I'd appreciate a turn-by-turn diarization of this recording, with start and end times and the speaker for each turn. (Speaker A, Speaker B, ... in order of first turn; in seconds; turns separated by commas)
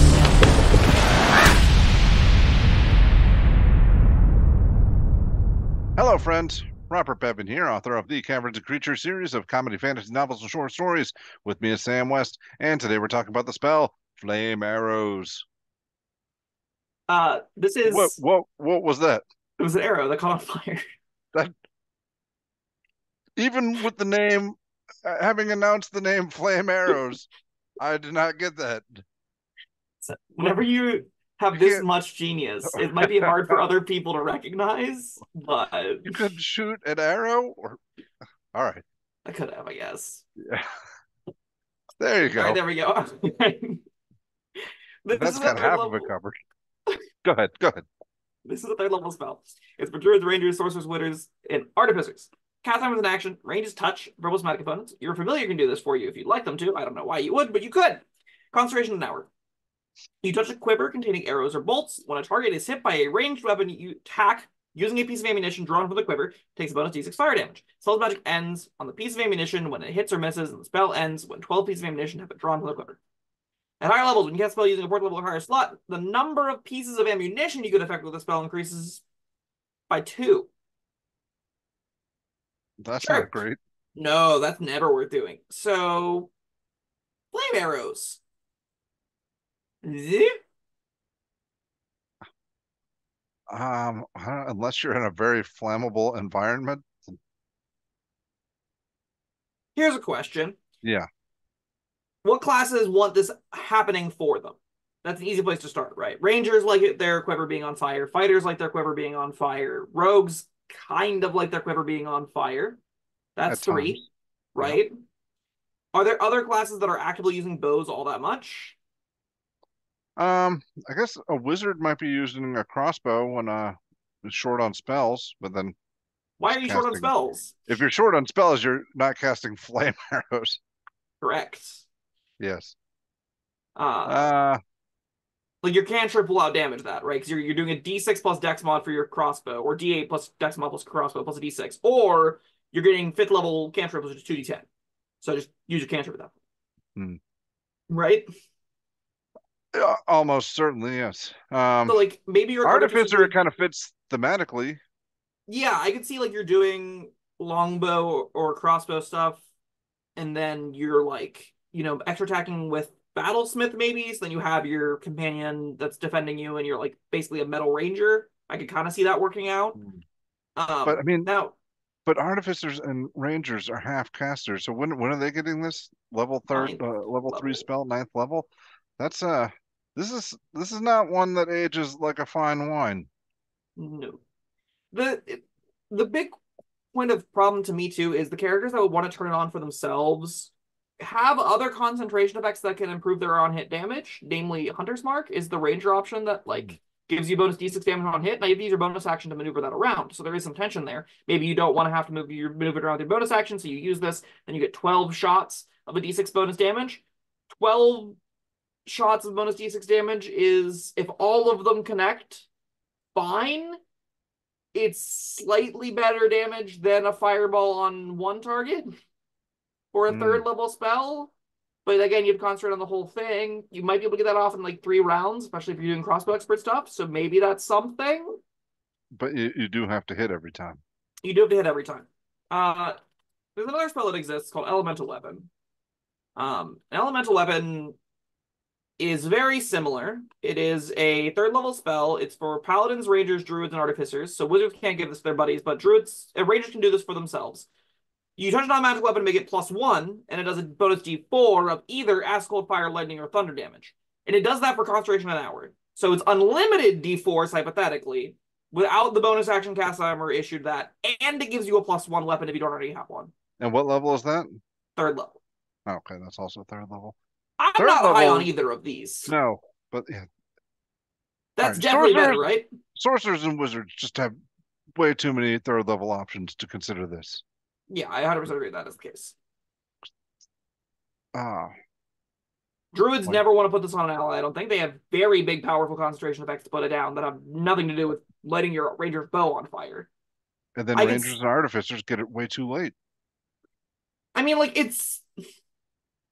Speaker A: 6.0-15.4, Speaker B: 17.1-18.2, Speaker A: 17.9-19.2, Speaker B: 19.6-20.8, Speaker A: 23.4-27.3, Speaker A: 27.8-29.0, Speaker B: 30.0-36.2, Speaker A: 31.5-31.8, Speaker A: 32.7-33.5, Speaker A: 36.0-37.8, Speaker A: 38.5-38.8, Speaker B: 39.2-40.2, Speaker A: 40.4-40.6, Speaker A: 42.0-42.6, Speaker B: 42.2-43.8, Speaker B: 45.0-46.1, Speaker A: 45.1-46.4, Speaker A: 47.2-47.9, Speaker B: 48.5-59.3, Speaker B: 60.2-73.0, Speaker B: 73.8-79.0, Speaker B: 79.9-80.5, Speaker A: 82.8-83.6, Speaker B: 83.0-83.3, Speaker B: 84.0-86.3, Speaker B: 87.3-88.2, Speaker B: 89.8-90.3, Speaker A: 93.5-97.2, Speaker B: 99.8-100.6, Speaker A: 100.8-101.1, Speaker B: 102.2-112.8, Speaker B: 113.3-114.0, Speaker A: 113.5-114.0, Speaker B: 114.5-114.9, Speaker B: 115.9-118.8, Speaker A: 120.2-125.7, Speaker B: 126.4-127.5, Speaker A: 126.5-127.1, Speaker A: 127.7-130.6, Speaker B: 131.2-131.8, Speaker A: 132.4-132.8, Speaker B: 133.8-134.3, Speaker A: 134.1-134.6, Speaker B: 135.6-144.7, Speaker B: 145.2-146.3, Speaker B: 147.9-148.2, Speaker A: 149.7-152.0, Speaker B: 151.8-153.3, Speaker A: 152.6-154.8, Speaker B: 155.5-159.4, Speaker B: 160.2-169.8, Speaker B: 170.6-171.5, Speaker A: 170.8-171.3, Speaker A: 172.1-183.1, Speaker B: 176.5-177.6, Speaker B: 183.8-184.2, Speaker B: 184.9-186.4, Speaker B: 186.9-208.2, Speaker B: 208.8-212.5, Speaker B: 213.1-213.8, Speaker B: 214.7-218.9, Speaker B: 219.9-221.3, Speaker A: 220.1-220.4, Speaker B: 221.8-228.3, Speaker A: 229.1-230.8, Speaker B: 231.2-232.9, Speaker B: 233.6-235.5, Speaker B: 236.3-237.9, Speaker B: 239.0-247.7, Speaker B: 248.4-263.3, Speaker A: 263.6-264.6, Speaker B: 265.0-265.4, Speaker A: 265.9-267.1, Speaker B: 267.6-269.3, Speaker A: 267.8-268.5, Speaker A: 269.3-270.3, Speaker B: 271.6-272.7, Speaker A: 271.6-274.3, Speaker A: 274.9-277.4, Speaker B: 277.9-279.3, Speaker A: 281.3-281.7, Speaker B: 282.9-290.1, Speaker A: 290.8-292.9, Speaker B: 290.9-291.4, Speaker B: 294.3-295.2